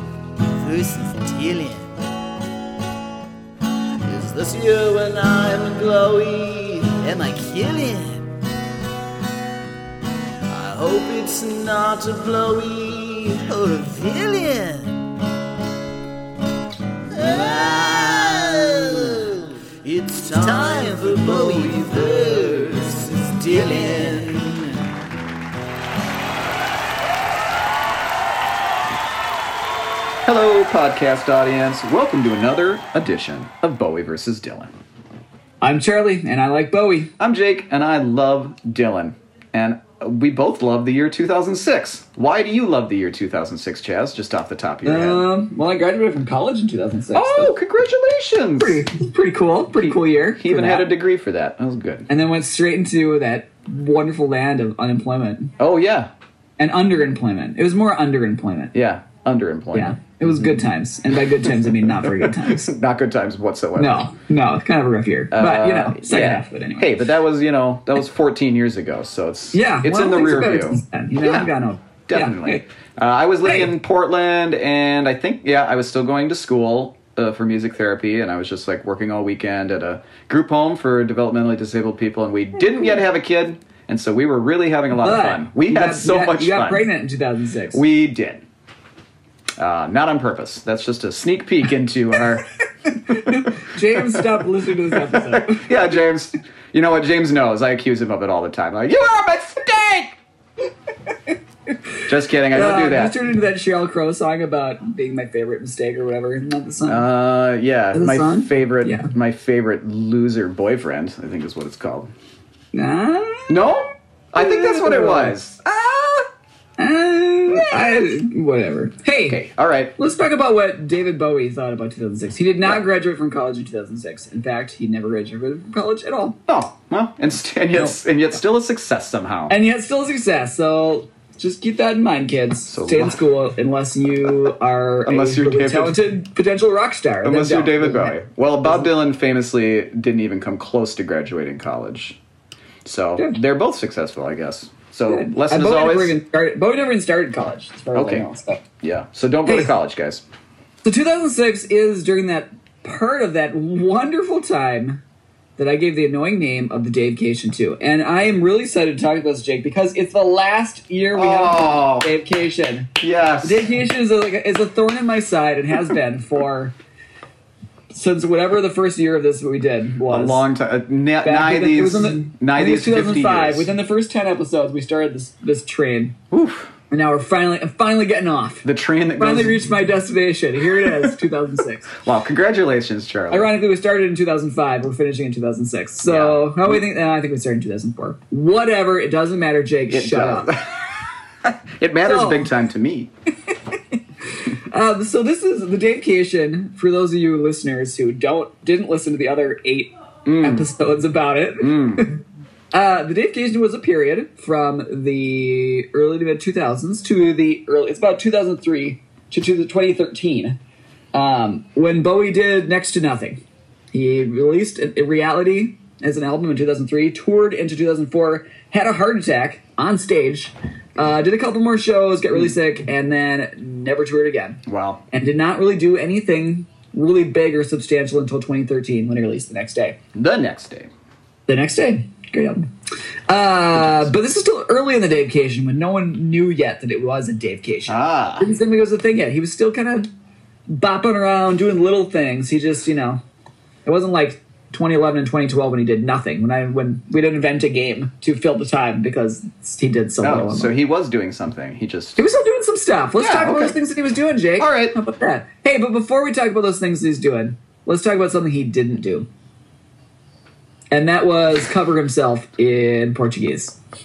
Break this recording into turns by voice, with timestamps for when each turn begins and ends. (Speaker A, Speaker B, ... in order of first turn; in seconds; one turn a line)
Speaker A: 0.5-1.9
Speaker A: 4.0-8.3
Speaker A: 10.5-15.2
Speaker A: 17.1-24.8
Speaker B: 21.0-22.1
Speaker B: 30.2-34.7
Speaker C: 35.6-37.1
Speaker B: 37.2-45.2
Speaker C: 44.8-47.5
Speaker B: 47.1-48.8
Speaker C: 48.6-50.9
Speaker B: 49.7-52.1
Speaker C: 52.1-55.5
Speaker B: 55.6-56.1
Speaker C: 56.6-58.7
Speaker B: 58.7-60.0
Speaker C: 59.7-62.7
Speaker B: 61.4-64.0
Speaker C: 63.8-67.0
Speaker B: 65.3-71.5
Speaker C: 69.5-72.6
Speaker B: 72.1-86.9
Speaker C: 84.9-87.8
Speaker B: 87.7-88.4
Speaker B: 89.6-92.5
Speaker C: 93.0-95.7
Speaker B: 93.1-100.2
Speaker B: 102.1-103.1
Speaker C: 102.5-107.1
Speaker B: 106.9-112.1
Speaker C: 107.9-109.1
Speaker C: 112.7-113.6
Speaker B: 113.5-116.3
Speaker C: 114.3-115.3
Speaker C: 116.8-119.4
Speaker B: 117.5-118.1
Speaker B: 119.3-119.9
Speaker C: 120.0-126.4
Speaker B: 126.5-129.5
Speaker C: 129.5-138.9
Speaker B: 132.7-133.2
Speaker B: 135.1-136.0
Speaker B: 137.2-142.2
Speaker B: 142.8-146.2
Speaker C: 145.1-148.6
Speaker B: 147.9-148.2
Speaker B: 148.8-150.2
Speaker C: 149.4-149.7
Speaker C: 150.8-155.0
Speaker C: 155.6-166.7
Speaker B: 161.1-162.1
Speaker B: 163.0-163.7
Speaker C: 167.9-170.4
Speaker B: 170.1-173.7
Speaker C: 171.2-176.2
Speaker B: 176.3-176.7
Speaker C: 176.9-178.7
Speaker B: 178.6-179.6
Speaker C: 179.2-182.0
Speaker B: 181.9-183.5
Speaker C: 183.3-190.6
Speaker B: 186.0-186.8
Speaker B: 189.9-190.7
Speaker B: 191.4-193.1
Speaker C: 192.0-192.5
Speaker C: 194.3-202.2
Speaker B: 200.2-200.7
Speaker B: 201.6-202.1
Speaker C: 202.7-210.6
Speaker C: 211.1-230.0
Speaker B: 224.7-225.0
Speaker B: 230.1-230.9
Speaker C: 231.5-232.7
Speaker C: 233.3-240.1
Speaker B: 237.9-238.5
Speaker C: 240.7-243.2
Speaker C: 243.8-250.7
Speaker B: 250.2-252.3
Speaker C: 252.2-259.3
Speaker B: 253.2-253.8
Speaker B: 254.6-255.0
Speaker C: 260.9-263.8